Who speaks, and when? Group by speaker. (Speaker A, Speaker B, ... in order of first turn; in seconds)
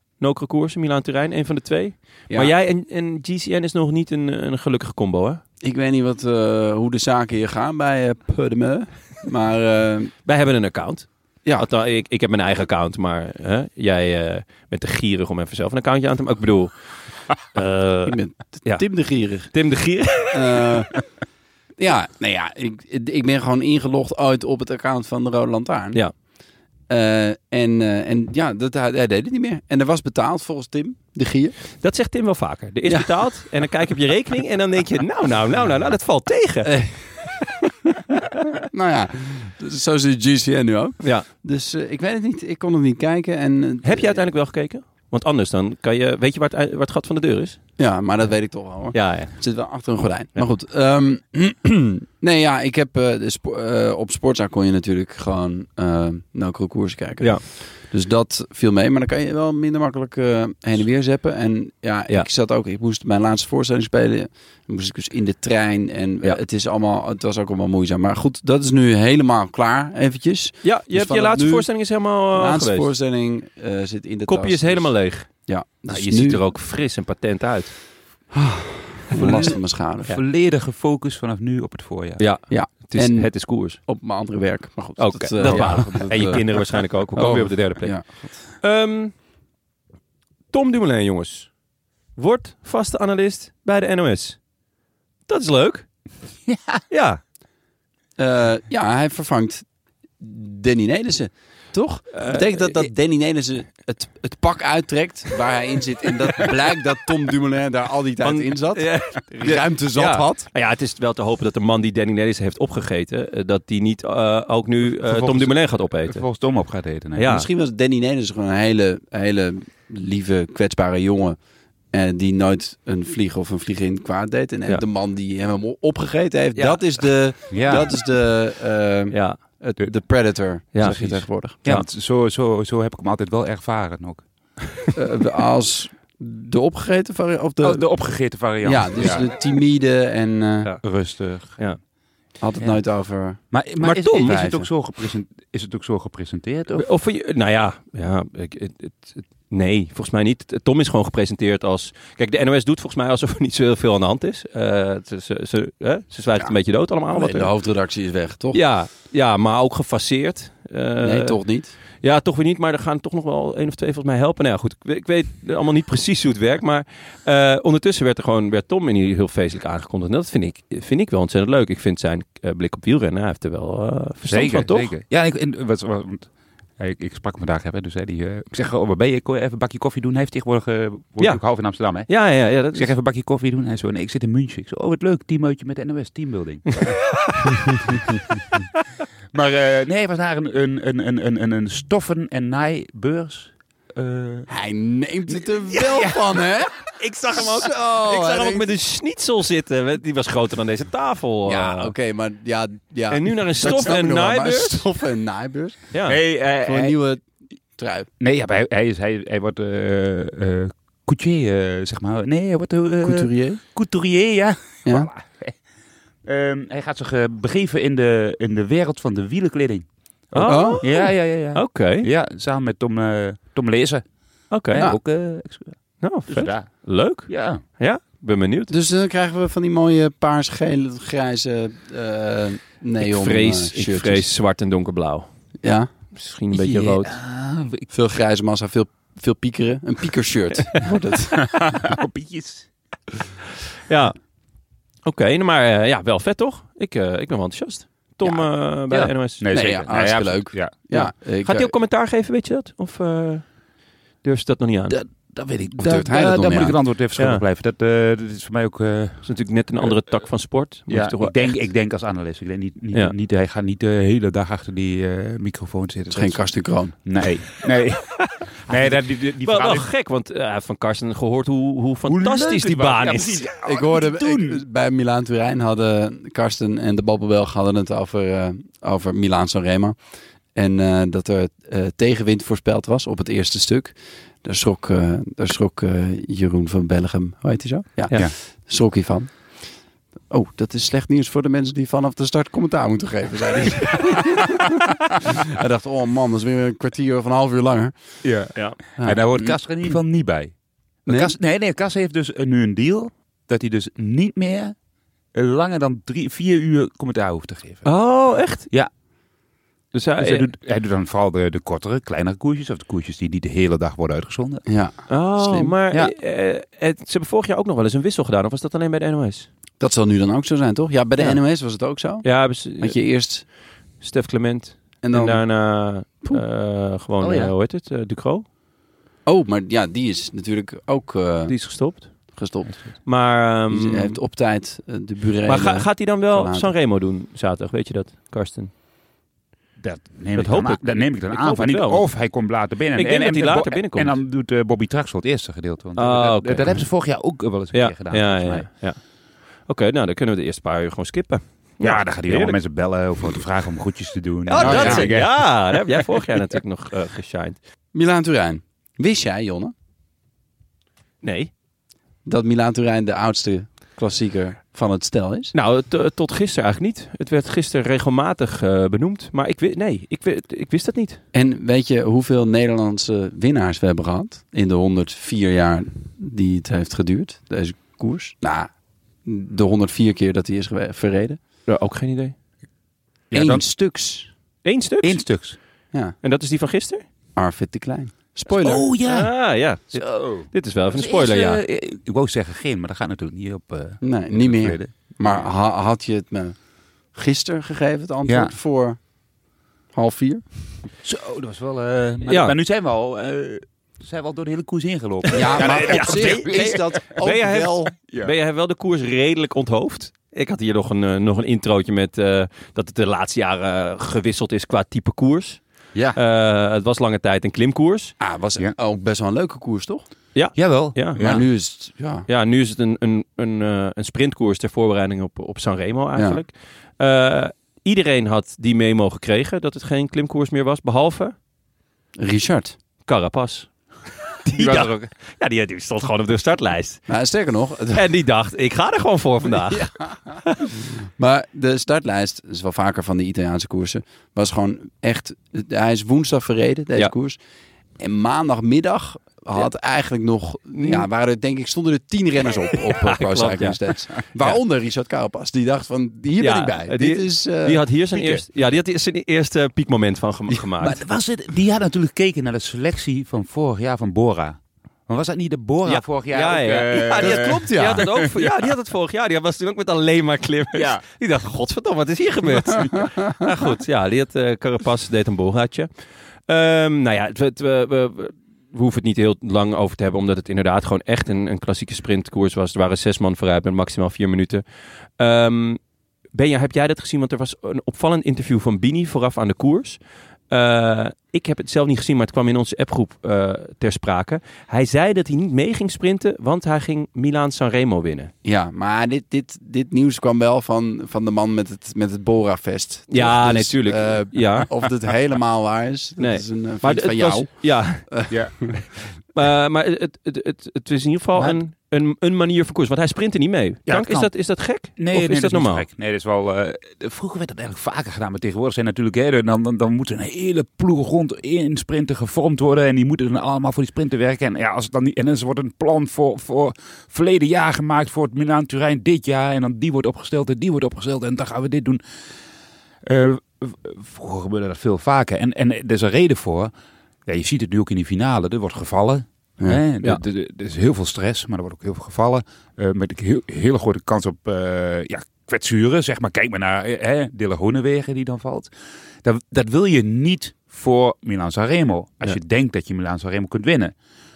Speaker A: 0.2-5.4, 10.3-16.7, 17.5-18.9, 19.5-20.9, 31.8-36.8, 43.8-47.6, 48.9-49.3, 70.6-72.9, 74.3-75.3, 75.9-77.8, 82.2-83.8, 85.0-89.2, 90.5-91.5, 92.2-94.4, 95.3-95.9, 96.9-97.2, 102.1-102.8, 108.2-116.2, 117.2-117.5, 126.6-126.8, 129.1-129.4, 130.7-131.8, 143.8-144.4, 146.7-157.5, 158.5-161.4, 162.0-174.9, 182.1-182.9, 195.7-196.1, 196.8-201.9, 203.1-204.8, 205.9-206.2, 220.3-222.1, 224.5-224.9, 226.0-228.7, 233.0-235.3, 236.1-237.2, 243.9-244.2, 245.1-249.5, 250.9-253.5, 254.2-255.0, 257.2-257.4, 259.2-261.6, 268.3-273.5, 307.9-308.7, 309.9-310.5, 315.1-319.5, 322.2-323.0, 324.0-328.5, 331.5-332.4, 333.0-334.2, 335.5-338.7, 340.4-342.1, 342.9-344.2, 346.0-346.8, 347.7-349.0, 349.7-352.6, 354.5-357.6, 361.2-361.5, 365.5-371.2, 381.7-382.4, 384.6-385.2, 386.2-387.0, 389.1-391.6, 402.3-402.6, 405.4-415.6, 416.1-418.1, 420.4-421.2, 422.3-431.4, 433.1-433.7, 434.4-437.0, 437.9-440.6, 450.7-451.1, 452.9-453.8, 456.4-461.0, 465.9-475.9, 476.5-484.6, 485.2-485.8, 486.3-490.0, 490.5-498.3, 503.1-504.7, 506.2-508.0, 509.4-515.9
Speaker B: 5.6-10.1, 18.1-19.5, 20.3-21.0, 21.8-26.0, 26.9-31.6, 32.9-33.1, 36.6-37.5, 38.7-44.2, 47.8-71.7, 72.3-76.4, 78.3-80.1, 82.5-88.4, 98.2-99.7, 100.2-110.5, 117.2-121.4, 121.9-131.7, 134.9-137.9, 138.6-140.7, 142.4-143.4, 144.2-144.7, 157.1-158.6, 161.0-161.8, 194.5-198.7, 201.5-207.3, 207.8-208.1, 213.0-213.6, 220.5-220.8, 228.7-234.3, 235.6-235.9, 237.9-241.6, 249.5-251.7, 255.8-256.8, 266.1-267.0, 273.6-280.0, 280.6-289.6, 290.3-297.9, 299.0-299.6, 301.1-301.3, 314.7-315.7, 319.8-323.4, 325.0-325.4, 326.0-326.4, 329.3-333.1, 333.7-336.7, 354.6-355.1, 357.9-359.7, 362.3-365.5, 371.3-378.7, 379.2-381.4, 383.3-384.3, 387.4-388.9, 394.0-396.6, 397.1-399.0, 399.9-400.4, 405.3-407.9, 418.2-420.1, 421.2-422.3, 432.2-432.8, 437.1-438.0, 439.7-440.2, 440.7-447.4, 448.0-457.8, 467.2-468.1, 498.4-508.7
Speaker C: 79.2-82.2, 85.4-86.4, 87.2-87.5, 96.5-96.8, 114.9-117.3, 127.5-127.9, 130.8-134.3, 137.6-139.3, 140.8-141.6, 143.5-146.9, 174.3-187.0, 187.7-188.0, 189.3-194.5, 206.1-207.0, 208.2-215.6, 216.2-224.0, 224.7-227.6, 236.5-237.9, 241.5-242.7, 248.2-250.8, 254.9-259.3, 260.9-269.9, 272.1-274.6, 298.2-300.5, 301.1-304.8, 305.3-307.9, 310.2-314.6, 327.2-327.5, 339.8-348.7, 351.8-355.8, 383.3-383.6, 385.0-385.6, 388.5-389.3, 389.9-395.5, 398.3-398.5, 401.0-407.2, 408.1-408.3, 420.5-421.4, 434.5-435.1, 458.1-458.4, 460.8-468.7, 470.7-471.0, 508.3-508.8, 511.4-511.6, 513.9-532.0, 533.0-536.7, 537.3-548.7, 549.2-553.9